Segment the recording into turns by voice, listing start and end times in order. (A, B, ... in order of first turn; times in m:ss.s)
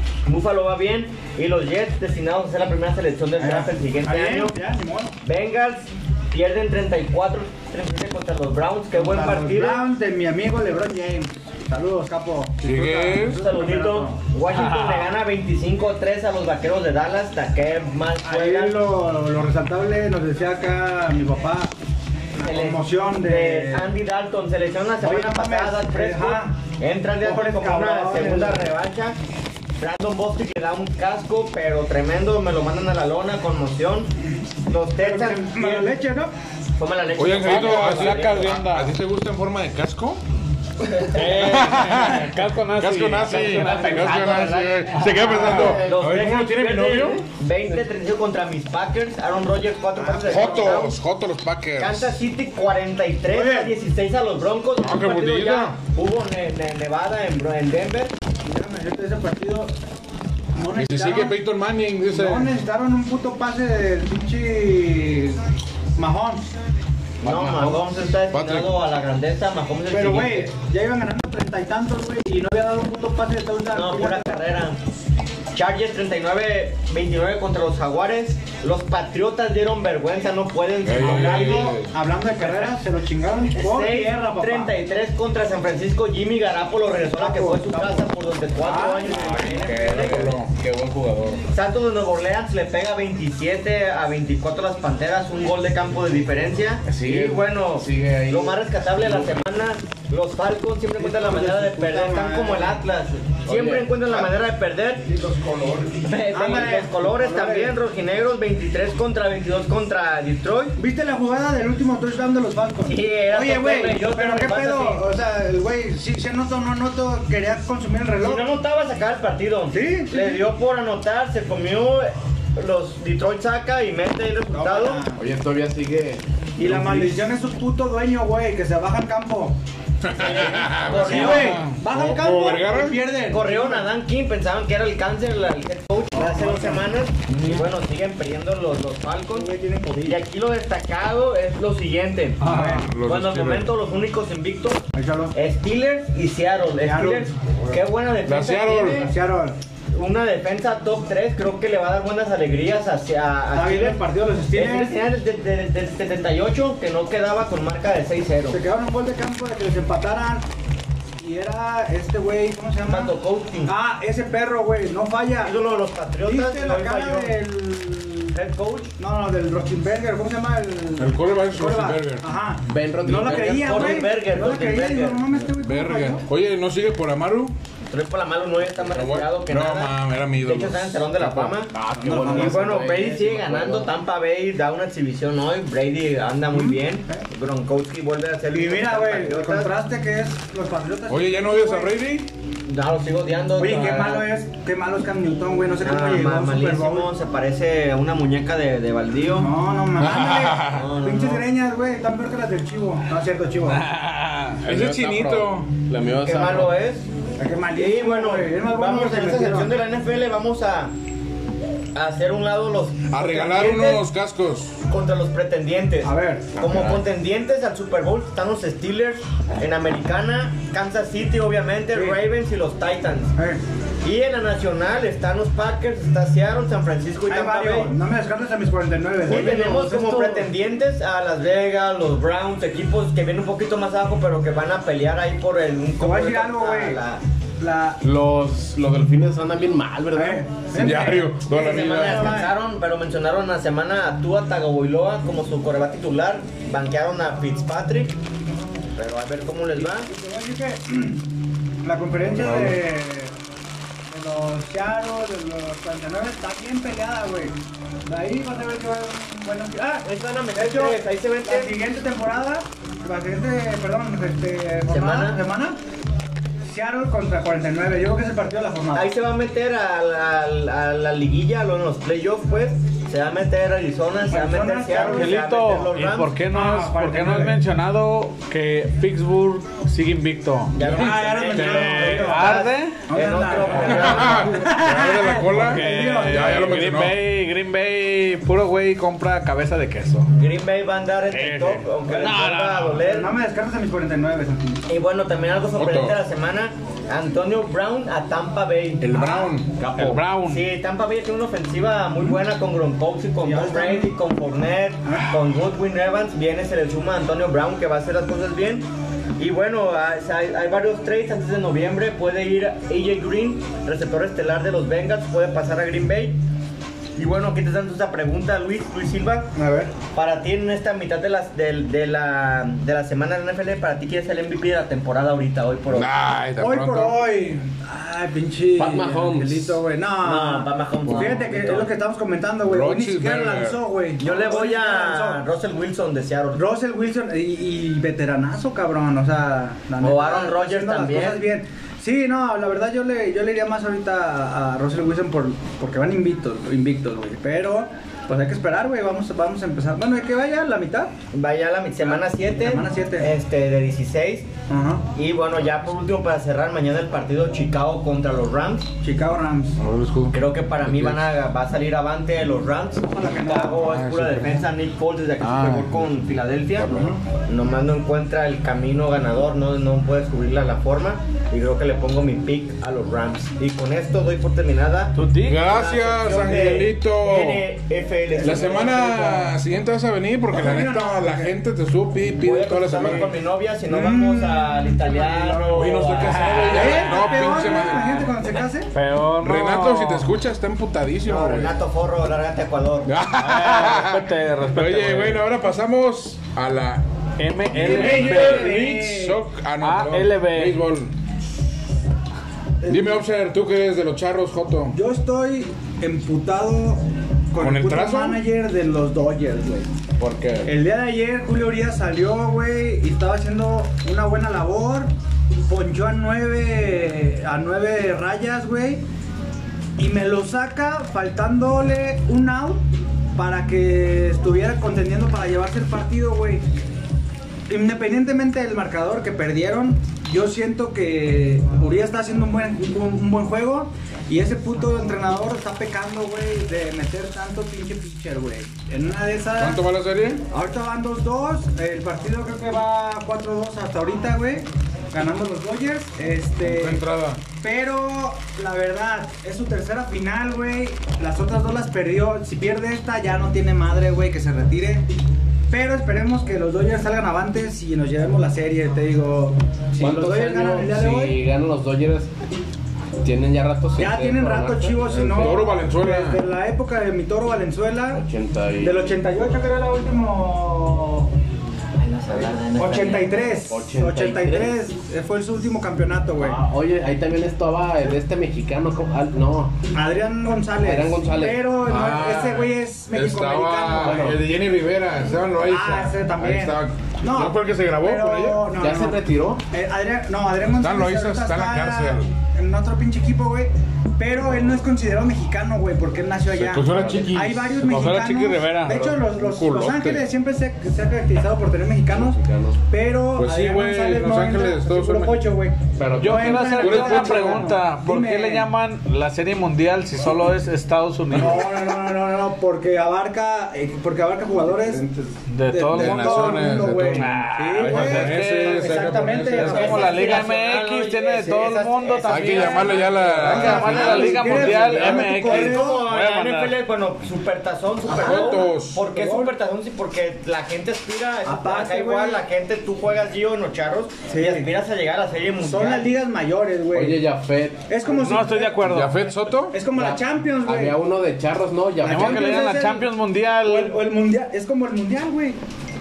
0:00.2-0:04.6 A
0:03.4-0:05.2 B
0:05.2-0:09.9 A
0:08.9-0:14.2 B
0:12.6-0:13.4 C
0:13.3-0:18.8 A
0:14.5-0:15.1 D
0:18.2-0:21.7 B
0:22.4-0:23.9 B
0:22.4-0:29.2 A
0:25.0-0:26.6 B
0:27.2-0:28.7 B
0:29.8-0:34.1 A
0:34.7-0:36.0 A
0:35.0-0:36.3 B
0:36.8-0:38.6 A
0:37.2-0:40.2 C
0:37.4-0:38.9 D
0:41.1-0:45.7 D
0:41.2-0:47.2 C
0:44.0-0:44.4 E
0:45.3-0:51.0 A
0:45.4-0:45.9 E
0:50.0-0:50.9 B
0:50.3-0:52.2 C
0:51.8-0:58.2 A
0:53.3-0:53.8 B
0:54.8-0:55.8 C
0:58.4-0:59.7 B
1:00.6-1:01.4 B
1:00.8-1:02.5 C
1:02.1-1:05.4 B
1:06.0-1:06.5 B
1:07.2-1:10.5 A
1:07.3-1:07.8 E
1:08.3-1:08.7 C
1:09.9-1:14.4 B
1:13.7-1:14.8 A
1:15.5-1:21.7 A
1:20.8-1:22.0 C
1:21.0-1:24.7 B
1:22.4-1:22.7 A
1:23.5-1:30.4 A
1:27.1-1:28.1 B
1:28.6-1:29.4 B
1:29.1-1:31.4 E
1:30.0-1:30.5 C
1:31.5-1:45.0 A
1:36.9-1:39.4 E
1:41.0-1:42.8 B
1:43.4-1:44.3 E
1:45.1-1:46.1 E
1:46.0-1:50.8 A
1:46.3-1:47.8 B
1:50.8-1:58.5 B
1:52.8-1:55.1 A
1:58.2-2:05.0 A
1:59.7-2:00.4 B
2:04.5-2:05.2 B
2:05.2-2:07.2 E
2:06.6-2:09.6 B
2:10.0-2:13.0 C
2:10.1-2:11.7 A
2:10.2-2:13.9 B
2:13.2-2:29.1 A
2:16.2-2:16.8 B
2:19.3-2:20.2 B
2:22.4-2:23.0 B
2:22.4-2:23.8 C
2:25.0-2:25.3 B
2:26.8-2:27.3 B
2:28.2-2:29.1 C
2:29.0-2:29.6 B
2:29.9-2:38.6 A
2:33.5-2:35.0 B
2:38.5-2:40.5 B
2:41.2-2:43.1 B
2:42.9-2:43.8 A
2:43.6-2:45.6 B
2:45.4-2:47.4 A
2:46.2-2:48.4 B
2:48.3-2:48.9 A
2:49.0-2:56.2 B
2:51.0-2:52.3 C
2:52.7-2:54.0 E
2:53.2-2:55.2 A
2:55.6-2:57.5 C
2:57.9-3:09.7 A
2:58.9-3:01.5 C
3:01.7-3:03.9 E
3:02.0-3:02.8 B
3:06.5-3:07.3 B
3:08.5-3:11.9 B
3:11.1-3:12.3 C
3:12.7-3:14.3 A
3:13.6-3:17.1 B
3:15.8-3:19.5 A
3:19.3-3:23.8 B
3:20.0-3:20.9 C
3:20.7-3:21.5 A
3:23.7-3:24.6 D
3:24.6-3:26.8 E
3:24.6-3:25.7 C
3:26.2-3:27.1 A
3:27.4-3:29.8 B
3:27.7-3:30.9 A
3:32.0-3:34.0 A
3:33.1-3:34.8 C
3:34.9-3:43.3 A
3:36.0-3:36.5 B
3:36.6-3:37.0 E
3:41.9-3:42.2 B
3:43.4-3:43.6 B
3:44.0-3:48.0 A
3:47.3-3:50.5 B
3:49.2-3:57.2 A
3:56.0-3:57.0 B
3:57.6-3:58.0 B
3:58.0-4:00.7 E
4:00.1-4:02.5 B
4:00.8-4:02.4 C
4:01.5-4:08.2 A
4:09.0-4:10.1 A
4:09.8-4:11.3 B
4:11.8-4:13.3 B
4:12.4-4:12.7 C
4:14.1-4:17.6 B
4:18.1-4:25.8 B
4:20.0-4:21.8 A
4:24.9-4:25.4 A
4:26.7-4:29.1 B
4:28.9-4:36.4 A
4:34.3-4:35.4 B
4:35.1-4:40.8 D
4:36.5-4:37.6 B
4:40.7-4:44.7 A
4:40.8-4:41.8 C
4:40.8-4:46.8 B
4:41.5-4:43.0 D
4:43.9-4:47.2 C
4:45.6-4:50.3 D
4:50.3-4:53.3 A
4:51.3-4:53.0 D
4:53.0-4:54.9 B
4:54.9-5:16.4 A
4:55.8-4:56.2 C
4:59.0-4:59.7 C
5:00.0-5:00.7 D
5:03.4-5:04.1 B
5:05.1-5:05.4 B
5:17.2-5:19.5 A
5:19.6-5:20.0 B
5:20.1-5:26.1 A
5:25.9-5:27.2 C
5:26.6-5:35.4 B
5:28.8-5:29.8 E
5:30.2-5:31.9 A
5:32.7-5:33.8 C
5:34.2-5:36.7 A
5:36.5-5:51.1 B
5:40.0-5:41.4 A
5:51.3-5:54.5 A
5:52.0-5:53.3 B
5:54.7-5:55.1 B
5:55.2-5:58.9 A
5:59.0-5:59.8 B
5:59.8-6:01.3 C
6:00.3-6:19.4 A
6:03.1-6:03.8 B
6:03.7-6:04.7 C
6:05.4-6:06.1 C
6:06.9-6:07.2 B
6:15.2-6:15.6 D
6:15.4-6:17.7 C
6:18.4-6:19.4 B
6:18.4-6:23.4 C
6:20.5-6:21.5 B
6:22.4-6:27.3 A
6:23.9-6:28.9 B
6:25.7-6:28.3 C
6:26.3-6:26.9 D
6:28.9-6:30.3 D
6:29.4-6:31.8 C
6:31.3-6:33.1 A
6:33.1-6:37.0 C
6:33.4-6:35.4 D
6:37.4-6:38.8 D
6:37.7-6:41.1 C
6:37.8-6:39.4 B
6:39.8-6:40.8 D
6:42.8-6:43.1 B
6:42.9-6:45.0 C
6:44.9-6:49.9 B
6:47.6-6:48.4 C
6:50.2-6:50.7 E
6:50.6-6:55.1 B
6:55.7-6:59.0 B
7:00.0-7:02.8 B
7:03.4-7:06.6 B
7:07.7-7:19.8 B
7:19.6-7:20.4 C
7:20.5-7:27.0 B
7:26.6-7:27.4 C
7:27.6-7:35.1 B
7:35.7-7:41.4 B
7:40.0-7:42.3 E
7:43.2-7:45.6 E
7:44.0-7:48.2 B
7:45.3-7:46.4 C
7:48.1-7:49.1 E
7:48.8-7:51.3 B
7:52.0-7:53.4 A
7:52.7-7:56.6 B
7:53.7-7:54.8 E
7:56.4-7:59.8 E
8:00.0-8:04.4 B
8:00.8-8:01.7 E
8:01.8-8:08.7 C
8:04.0-8:04.4 E
8:05.6-8:22.4 B
8:08.8-8:09.6 E
8:10.8-8:12.3 C
8:16.5-8:18.3 C
8:16.9-8:17.3 E
8:17.9-8:19.1 D
8:19.2-8:20.3 C
8:22.1-8:22.8 E
8:22.9-8:28.7 B
8:23.4-8:25.6 C
8:26.0-8:26.8 E
8:26.2-8:27.8 C
8:26.2-8:31.7 D
8:31.3-8:40.4 B
8:35.5-8:46.8 D
8:35.9-8:40.1 C
8:39.6-8:56.1 A
8:42.3-8:45.3 C
8:43.3-8:46.1 B
8:48.1-8:49.6 B
8:48.1-8:49.0 C
8:51.4-8:52.4 B
8:54.3-8:54.7 B
8:55.6-8:57.2 B
8:56.9-8:57.9 E
8:57.9-8:58.9 B
8:58.1-8:59.2 D
8:58.8-8:59.8 C
8:59.7-9:01.0 B
8:59.9-9:02.7 E
9:02.0-9:03.1 B
9:02.0-9:04.0 D
9:03.6-9:05.6 B